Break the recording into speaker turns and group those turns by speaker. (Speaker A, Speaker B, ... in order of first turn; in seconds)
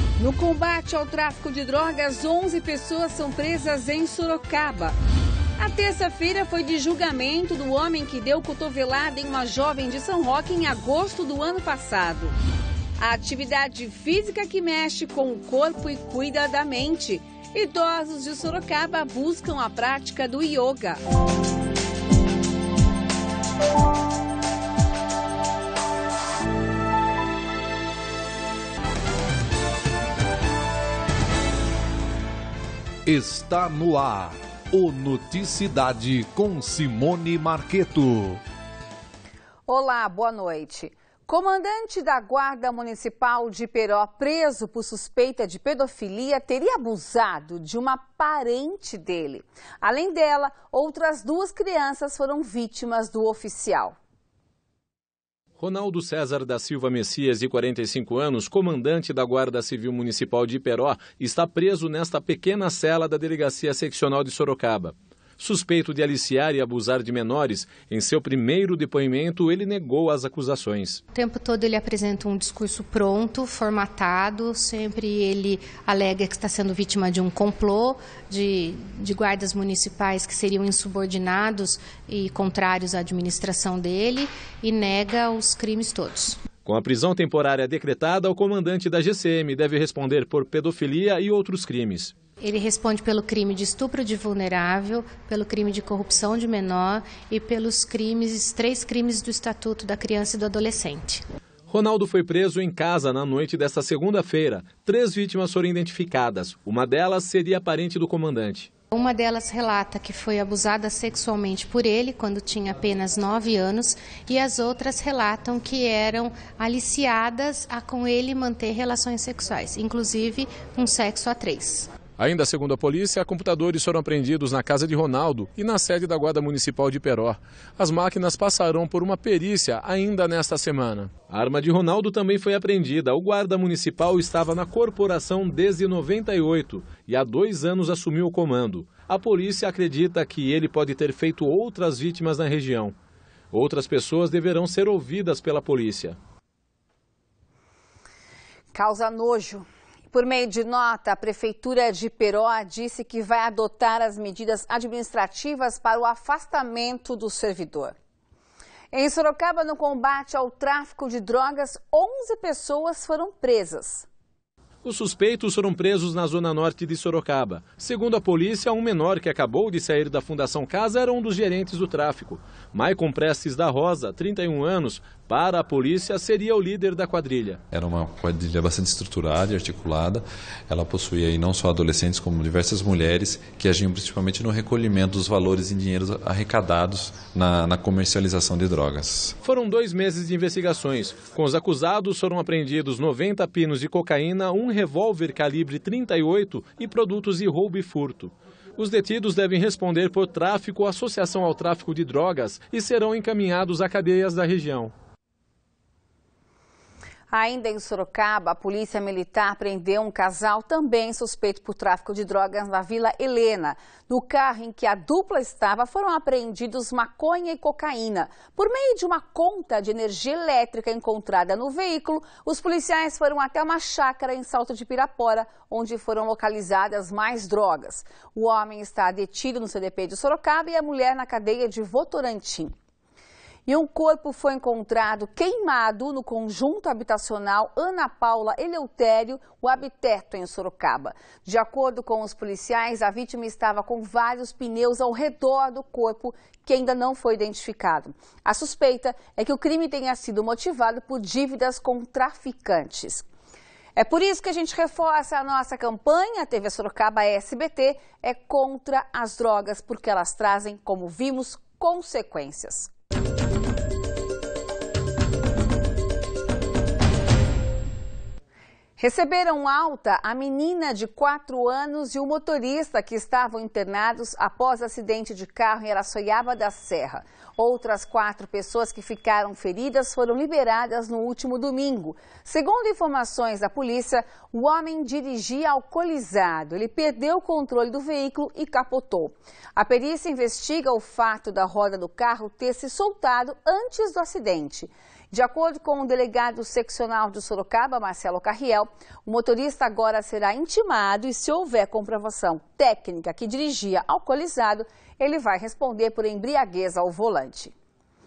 Speaker A: 0.2-5.0, 5.6-12.3, 13.0-21.0, 39.7-54.0, 148.7-157.9, 158.9-164.1, 207.3-232.7, 233.7-253.3, 254.0-262.9, 269.0-307.7
Speaker B: 33.1-38.4
Speaker C: 55.6-71.0, 86.7-92.1, 101.7-108.7, 122.2-142.9, 143.5-146.2, 164.8-177.6, 189.4-204.9
Speaker D: 71.1-86.4, 92.4-101.2, 108.9-121.9
Speaker E: 177.7-189.3